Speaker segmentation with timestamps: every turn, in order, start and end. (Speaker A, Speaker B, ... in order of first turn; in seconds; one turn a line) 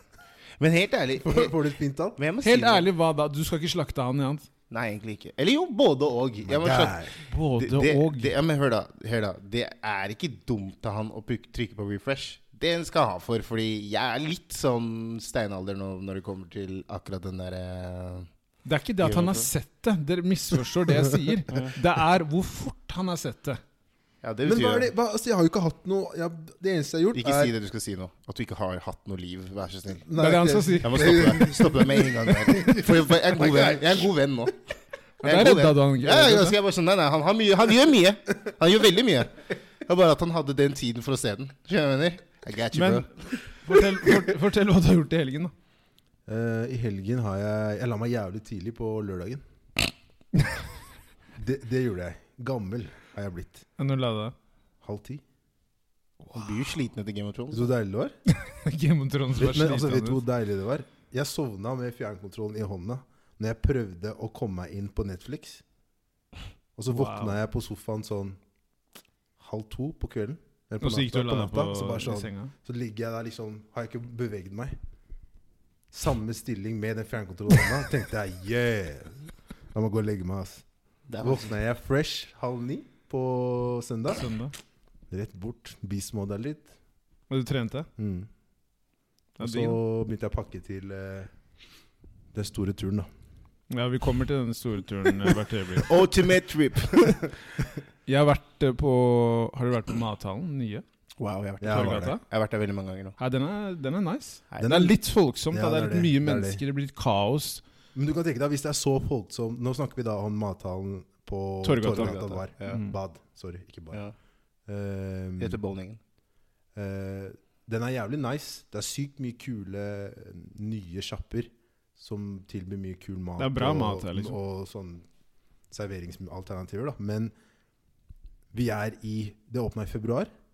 Speaker A: 0.6-1.6
Speaker B: 1.2-2.2
Speaker A: 2.2-2.9
Speaker C: 2.4-4.5
Speaker A: 4.7-18.3
Speaker B: 6.5-7.1
Speaker C: 7.2-8.3
Speaker C: 18.6-23.6
Speaker A: 19.0-19.5
Speaker A: 24.2-24.9
Speaker B: 24.4-27.5
Speaker A: 27.1-30.1
Speaker B: 30.1-34.1
Speaker C: 30.1-31.5
Speaker A: 30.8-34.6
Speaker A: 35.2-43.1
Speaker C: 35.2-36.6
Speaker C: 42.7-45.5
Speaker B: 46.3-49.4
Speaker B: 51.4-53.6
Speaker C: 53.8-54.3
Speaker B: 54.8-55.2
Speaker C: 56.3-56.5
Speaker A: 56.3-57.7
Speaker B: 57.5-58.1
Speaker C: 58.3-60.2
Speaker B: 59.4-65.6
Speaker B: 66.8-68.4
Speaker C: 66.9-67.4
Speaker B: 69.4-74.8
Speaker C: 70.8-72.5
Speaker B: 75.9-80.7
Speaker A: 81.1-81.5
Speaker B: 81.2-84.3
Speaker C: 84.2-84.5
Speaker B: 85.1-86.7
Speaker C: 87.3-87.9
Speaker B: 88.0-88.3
Speaker C: 89.4-89.8
Speaker B: 89.4-91.3
Speaker B: 92.3-93.1
Speaker C: 93.7-96.0
Speaker A: 95.8-97.3
Speaker C: 98.1-100.8
Speaker A: 101.2-103.2
Speaker B: 101.6-102.2
Speaker C: 101.7-102.2
Speaker C: 103.2-107.6
Speaker B: 104.6-105.0
Speaker B: 105.5-106.6
Speaker B: 108.0-114.0
Speaker C: 111.6-113.0
Speaker A: 111.8-112.8
Speaker B: 114.7-115.6
Speaker A: 115.4-116.0
Speaker B: 116.8-125.1
Speaker C: 123.4-124.4
Speaker B: 125.7-127.3
Speaker B: 128.5-130.3